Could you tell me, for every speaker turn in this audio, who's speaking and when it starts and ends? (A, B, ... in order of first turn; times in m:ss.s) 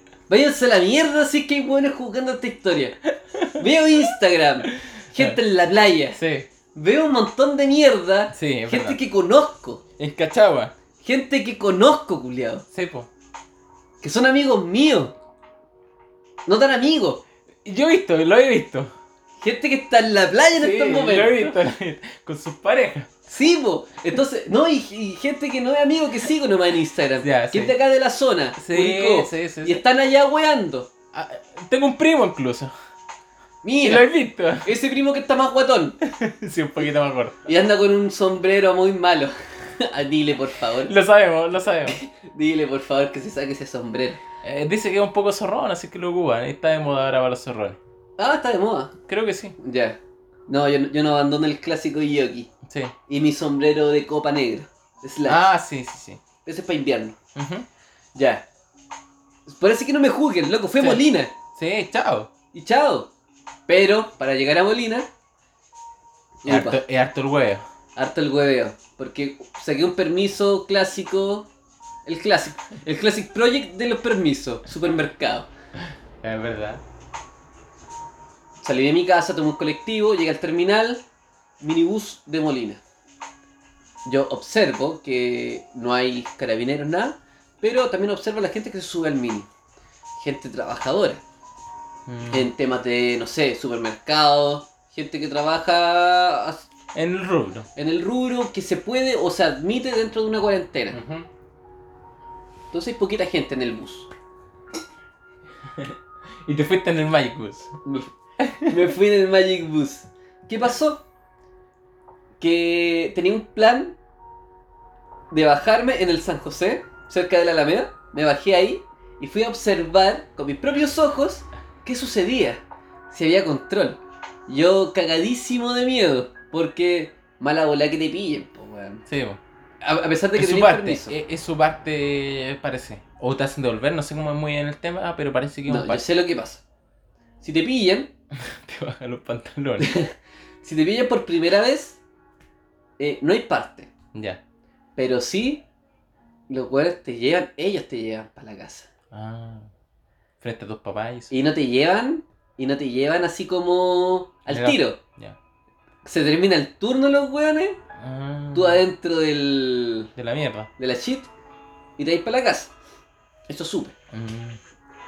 0:00.3-0:03.0 A
0:03.3-0:04.1 B
0:03.5-0:06.2 A
0:05.1-0:05.4 B
0:06.2-0:06.5 B
0:06.7-0:09.8 A
0:08.3-0:09.0 B
0:10.0-0:10.7 B
0:11.0-0:12.6 A
0:12.7-0:13.1 B
0:14.0-0:15.2 A
0:16.4-0:17.2 A
0:17.6-0:18.9 B
0:19.4-0:21.6 A
0:20.5-0:23.1 B
0:23.3-0:30.9 A
0:27.2-0:27.7 B
0:28.6-0:29.8 B
0:31.1-0:32.7 B
0:33.6-0:34.1 A
0:33.8-0:34.7 B
0:34.6-0:36.0 A
0:36.0-0:37.4 B
0:37.4-0:40.9 A
0:40.8-0:42.0 B
0:41.9-0:44.2 A
0:44.4-0:47.8 B
0:48.2-0:48.9 A
0:49.1-0:49.6 B
0:49.6-0:52.5 A
0:52.6-0:52.9 B
0:53.1-0:55.4 A
0:55.2-0:56.2 B
0:56.4-0:57.2 A
0:57.3-0:57.6 B
0:58.1-0:58.4 A
0:59.5-1:01.3 A
1:00.8-1:02.3 B
1:02.5-1:03.1 A
1:03.7-1:05.1 A
1:06.4-1:06.8 A
1:06.5-1:07.6 B
1:08.0-1:11.5 A
1:12.0-1:15.5 A
1:16.2-1:16.8 B
1:18.6-1:21.0 A
1:21.6-1:22.8 A
1:24.0-1:29.5 A
1:30.2-1:31.2 A
1:32.1-1:32.5 B
1:32.3-1:36.6 A
1:36.9-1:37.7 B
1:37.8-1:41.0 A
1:40.9-1:41.3 B
1:42.7-1:44.1 A
1:45.7-1:47.7 B
1:47.8-1:48.1 A
1:48.4-1:48.9 B
1:48.6-1:51.0 A
1:52.4-1:54.0 A
1:55.3-2:09.0 A
2:09.1-2:09.4 B
2:09.8-2:11.1 A
2:10.3-2:16.0 B
2:15.6-2:16.6 A
2:17.4-2:18.1 A
2:18.3-2:20.0 B
2:19.8-2:20.1 A
2:20.6-2:22.0 A
2:23.0-2:23.9 A
2:24.1-2:24.4 B
2:25.0-2:25.6 A
2:26.5-2:28.9 A
2:29.1-2:29.7 B
2:30.4-2:31.3 B
2:31.3-2:35.0 A
2:34.5-2:35.4 B
2:36.0-2:37.8 A
2:38.0-2:38.8 B
2:38.5-2:40.1 A
2:40.2-2:40.7 B
2:40.8-2:41.3 A
2:42.0-2:42.7 A
2:43.5-2:43.9 A
2:44.1-2:44.6 B